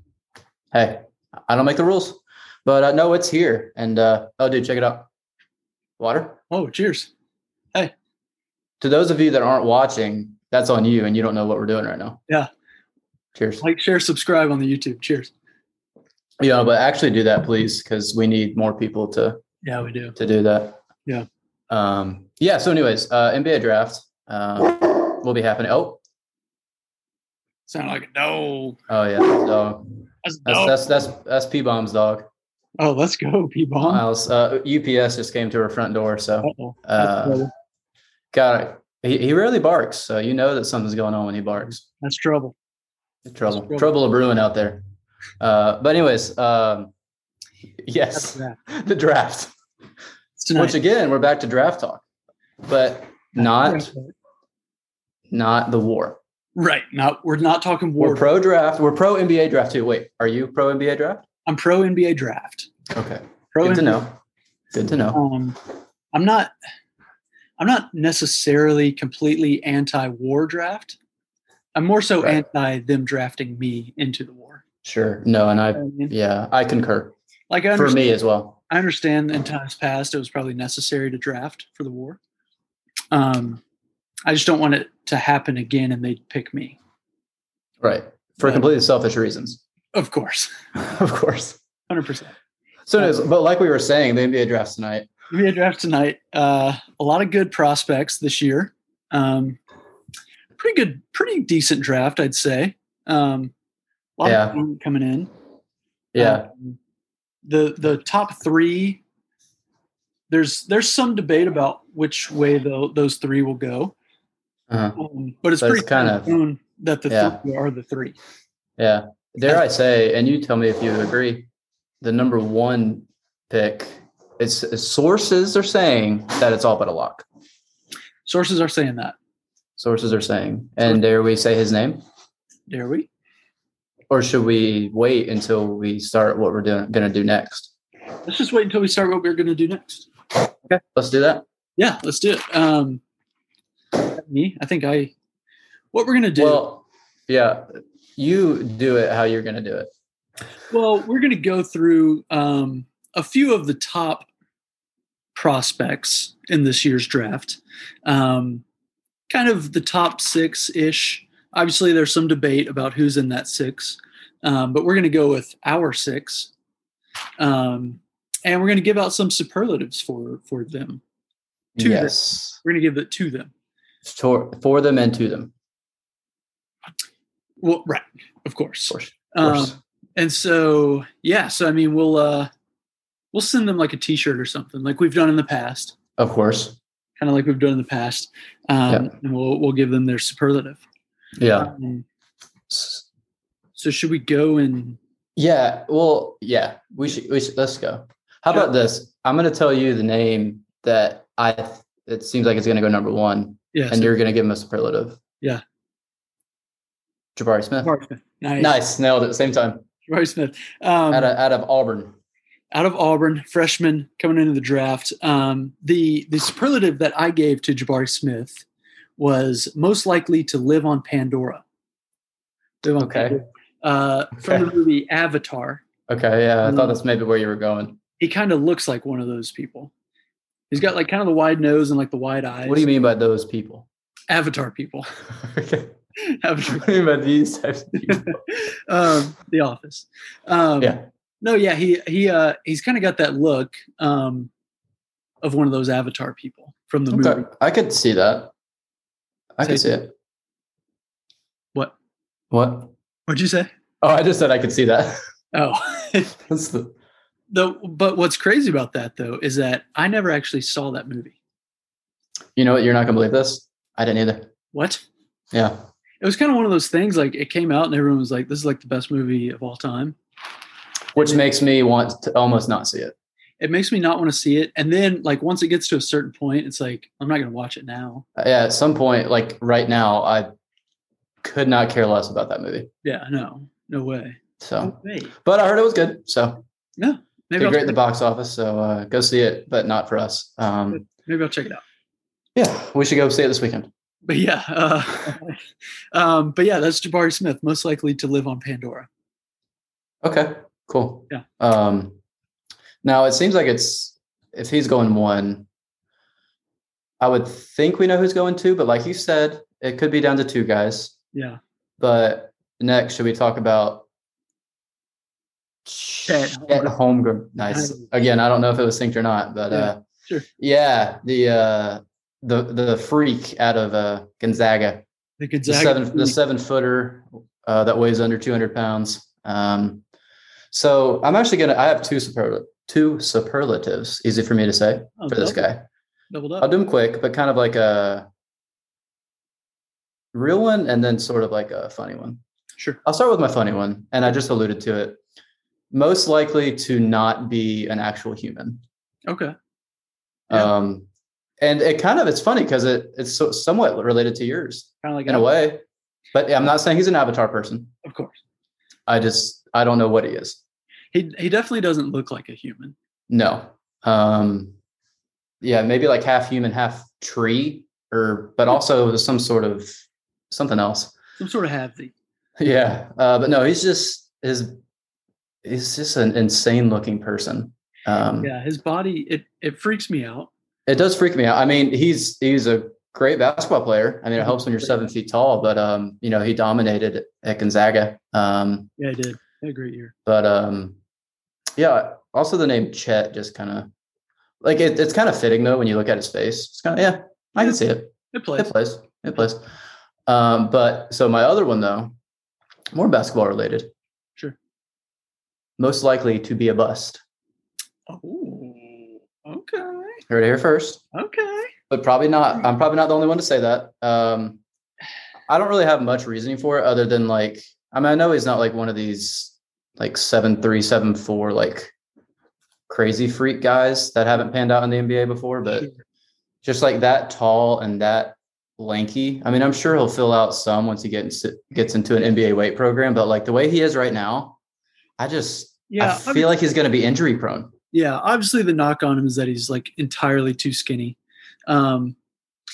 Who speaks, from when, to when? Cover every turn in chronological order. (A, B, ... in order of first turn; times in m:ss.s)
0:00.7-0:05.1 A
0:06.0-0:06.4 A
0:06.5-0:07.1 B
0:08.8-0:12.2 A
0:13.4-0:13.6 A
0:13.6-0:15.3 B
0:16.4-0:19.4 A
0:19.6-0:20.2 B
0:20.2-0:20.8 A
0:21.7-0:26.0 A
0:27.7-0:28.8 B
0:28.9-0:29.9 A
0:30.2-0:30.8 B
0:30.4-0:32.3 A
0:32.8-0:34.0 B
0:33.8-0:37.5 A
0:36.4-0:37.5 B
0:38.3-0:41.8 A
0:41.9-0:42.6 B
0:43.2-0:44.8 A
0:43.5-0:43.9 B
0:45.4-0:46.9 A
0:47.8-0:49.5 A
0:48.1-0:48.6 B
0:50.4-0:50.8 B
0:50.6-0:52.0 A
0:52.7-0:53.9 A
0:53.4-0:54.1 B
0:55.3-0:56.2 A
0:56.6-0:58.3 B
0:58.0-1:01.3 A
1:01.5-1:02.7 B
1:02.9-1:04.2 A
1:03.5-1:04.0 B
1:04.7-1:05.2 A
1:05.1-1:05.6 B
1:06.1-1:06.5 B
1:07.6-1:11.0 B
1:11.8-1:14.6 B
1:14.8-1:17.1 A
1:15.7-1:16.1 B
1:17.5-1:18.1 B
1:17.8-1:18.6 A
1:18.7-1:22.2 B
1:23.1-1:23.6 B
1:24.3-1:26.8 B
1:27.8-1:29.6 A
1:29.9-1:30.5 B
1:30.8-1:31.6 A
1:31.9-1:32.3 B
1:32.9-1:35.1 A
1:35.3-1:39.6 B
1:40.6-1:43.5 B
1:44.2-1:45.3 B
1:44.2-1:44.6 A
1:46.1-1:46.5 A
1:46.2-1:46.8 B
1:47.4-1:49.0 B
1:50.3-1:53.9 B
1:54.7-1:55.0 A
1:55.0-1:58.2 B
1:55.6-1:56.3 A
1:57.1-1:57.4 A
1:58.8-2:01.5 A
2:02.0-2:07.2 A
2:08.3-2:09.2 B
2:09.8-2:12.0 A
2:12.7-2:13.1 B
2:14.1-2:17.7 A
2:18.2-2:20.1 B
2:20.6-2:21.4 A
2:21.8-2:23.0 B
2:24.0-2:25.1 B
2:25.9-2:26.7 B
2:26.4-2:27.7 A
2:28.2-2:29.9 A
2:30.7-2:34.3 B
2:35.3-2:38.6 B
2:39.3-2:46.5 B
2:47.4-2:51.0 B
2:51.8-2:52.6 A
2:51.8-2:53.5 B
2:54.0-2:55.5 A
2:57.6-3:02.5 B
2:58.9-2:59.8 A
3:03.3-3:06.0 B
3:06.2-3:06.8 A
3:07.2-3:10.8 B
3:11.4-3:11.7 A
3:11.6-3:12.0 B
3:12.7-3:13.0 A
3:13.8-3:15.0 B
3:15.4-3:25.2 A
3:23.7-3:24.2 B
3:27.4-3:27.9 A
3:27.8-3:28.8 B
3:28.6-3:29.8 A
3:30.1-3:31.3 B
3:31.1-3:32.2 A
3:32.7-3:38.6 B
3:39.2-3:41.6 B
3:42.8-3:45.8 B
3:43.0-3:43.4 A
3:46.1-3:48.0 A
3:46.6-3:47.0 B
3:48.2-3:49.9 B
3:50.7-3:52.9 B
3:52.6-3:53.9 A
3:54.3-3:55.1 B
3:55.4-3:56.0 A
3:56.2-3:56.9 B
3:56.7-3:58.4 A
3:58.1-4:04.5 B
4:00.8-4:01.0 A
4:05.4-4:07.5 B
4:07.1-4:08.5 A
4:09.6-4:10.1 A
4:09.6-4:09.9 B
4:12.5-4:12.9 A
4:13.3-4:13.7 B
4:14.0-4:15.2 A
4:15.5-4:16.4 B
4:16.5-4:16.9 A
4:17.5-4:21.4 B
4:22.6-4:24.5 A
4:24.7-4:25.0 B
4:25.5-4:25.8 A
4:26.2-4:30.2 B
4:31.2-4:33.2 A
4:33.6-4:38.2 B
4:38.4-4:40.5 A
4:41.4-4:42.9 A
4:43.0-4:45.3 B
4:44.6-4:46.6 A
4:47.0-4:48.0 B
4:47.6-4:51.1 A
4:50.9-4:51.8 B
4:52.6-4:53.9 A
4:54.3-4:55.6 B
4:56.1-4:59.1 B
5:00.2-5:02.2 A
5:03.0-5:05.7 A
5:07.2-5:11.2 A
5:11.3-5:11.6 B
5:12.0-5:14.1 A
5:15.9-5:20.0 A
5:16.3-5:16.9 B
5:17.7-5:18.0 B
5:19.7-5:20.5 B
5:20.6-5:25.0 A
5:25.4-5:26.4 B
5:25.7-5:30.0 A
5:30.7-5:35.9 A
5:35.2-5:35.6 B
5:36.3-5:36.7 B
5:36.6-5:38.3 A
5:40.3-5:42.4 A
5:43.0-5:45.2 A
5:45.9-5:48.8 A
5:49.3-5:49.6 B
5:50.5-5:51.1 A
5:51.6-5:55.8 A
5:55.0-5:55.5 B
5:56.3-5:57.9 A
5:58.0-5:58.4 B
5:59.1-6:00.6 A
6:01.1-6:03.0 B
6:03.3-6:04.8 A
6:05.6-6:10.0 A
6:10.5-6:11.2 A
6:11.4-6:12.1 B
6:12.6-6:14.8 A
6:15.6-6:18.5 A
6:18.4-6:20.5 B
6:20.9-6:28.9 A
6:29.0-6:30.1 B
6:30.3-6:31.0 A
6:31.8-6:33.9 A
6:34.6-6:39.6 A
6:38.3-6:38.7 B
6:40.3-6:42.2 A
6:42.9-6:43.9 A
6:45.8-6:47.2 A
6:48.1-6:50.2 B
6:50.3-6:51.0 A
6:51.1-6:51.7 B
6:51.9-6:54.6 A
6:55.5-7:01.9 A
7:02.9-7:05.9 A
7:06.6-7:14.6 A
7:15.2-7:17.7 A
7:15.9-7:16.5 B
7:17.9-7:21.2 B
7:21.7-7:22.2 B